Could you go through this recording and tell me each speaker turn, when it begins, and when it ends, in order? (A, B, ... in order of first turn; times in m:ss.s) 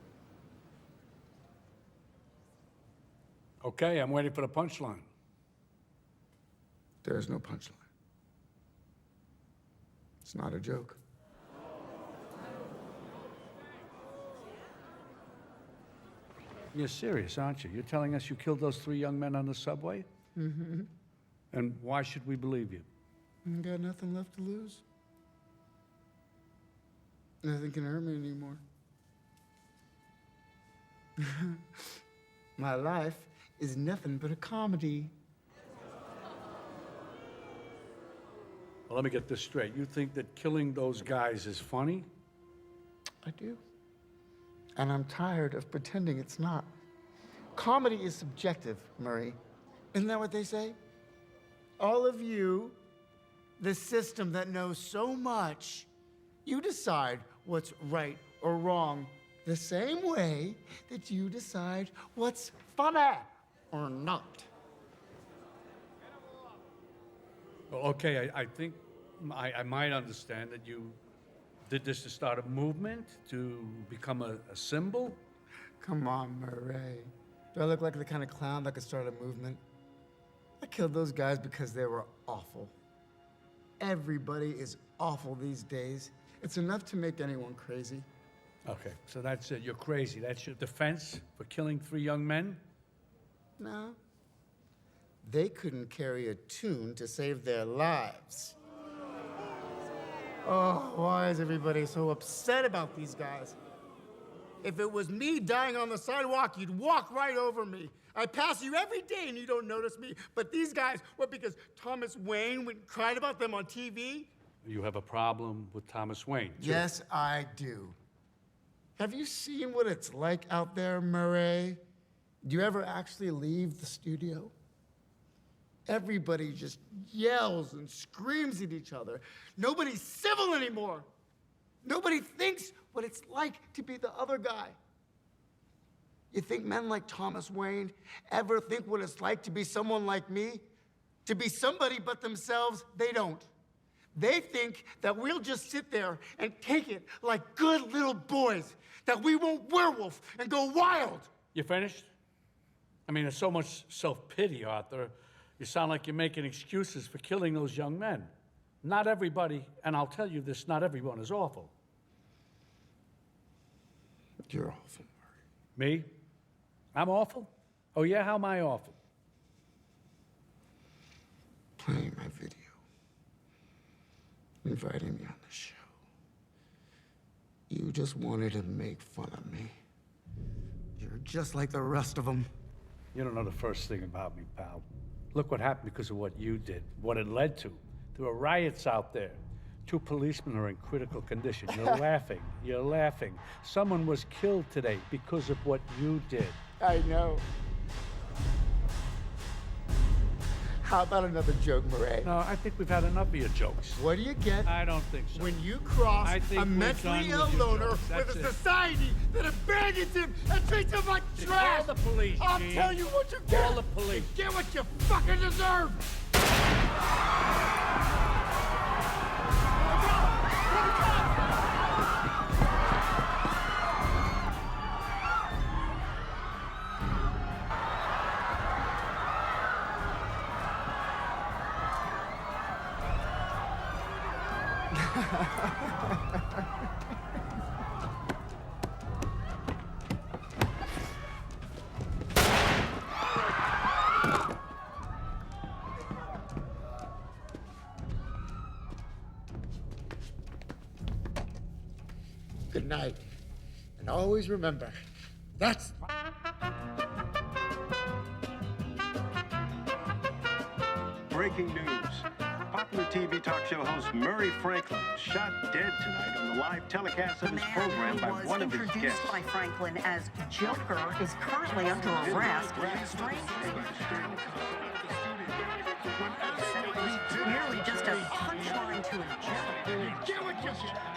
0:03.6-0:05.1 A
0:07.0-0:07.8 B
0:10.2-0:11.0 B
0:16.7-0:20.1 A
0:20.4-0:20.9 B
0:21.5-0:22.9 A
0:23.4-0:24.8 B
0:27.4-0:28.6 B
0:31.2-0:31.6 B
0:32.6-0:35.1 B
0:38.9-0:42.1 A
0:43.2-0:43.6 B
0:44.8-0:46.7 B
0:47.6-0:49.4 B
0:49.9-0:50.8 B
0:51.8-0:52.8 B
0:53.6-0:55.9 B
0:56.4-1:04.5 B
1:07.7-1:11.0 A
1:11.7-1:15.2 A
1:15.8-1:19.6 B
1:20.6-1:22.8 B
1:23.8-1:28.1 B
1:28.7-1:32.6 A
1:33.6-1:34.0 B
1:35.2-1:38.6 B
1:40.4-1:43.6 B
1:44.6-1:54.3 B
1:54.6-1:56.9 A
1:56.6-1:58.0 B
1:59.0-2:01.8 B
2:02.4-2:04.5 B
2:05.9-2:11.1 B
2:11.8-2:14.8 B
2:16.3-2:20.6 B
2:21.3-2:23.5 B
2:24.2-2:31.3 B
2:31.5-2:32.1 A
2:33.1-2:38.3 A
2:38.8-2:41.7 A
2:44.5-2:45.1 B
2:45.8-2:46.1 A
2:46.9-2:49.0 A
2:51.8-2:52.8 B
2:54.6-2:55.8 B
2:57.7-2:59.8 B
3:01.0-3:02.5 B
3:03.1-3:16.6 A
3:11.7-3:12.0 B
3:16.8-3:17.4 B
3:20.8-3:22.4 B
3:22.2-3:24.0 A
3:24.0-3:24.7 B
3:24.6-3:25.6 A
3:25.4-3:36.1 B
3:26.2-3:28.6 A
3:31.4-3:34.3 A
3:54.9-3:56.7 B
4:12.7-4:13.2 B
4:14.0-4:15.0 B
4:15.6-4:16.0 B
4:21.3-4:29.4 C
4:27.4-4:33.9 D
4:31.9-4:35.5 C
4:36.1-4:38.3 C
4:36.5-4:40.2 D
4:40.3-4:41.0 B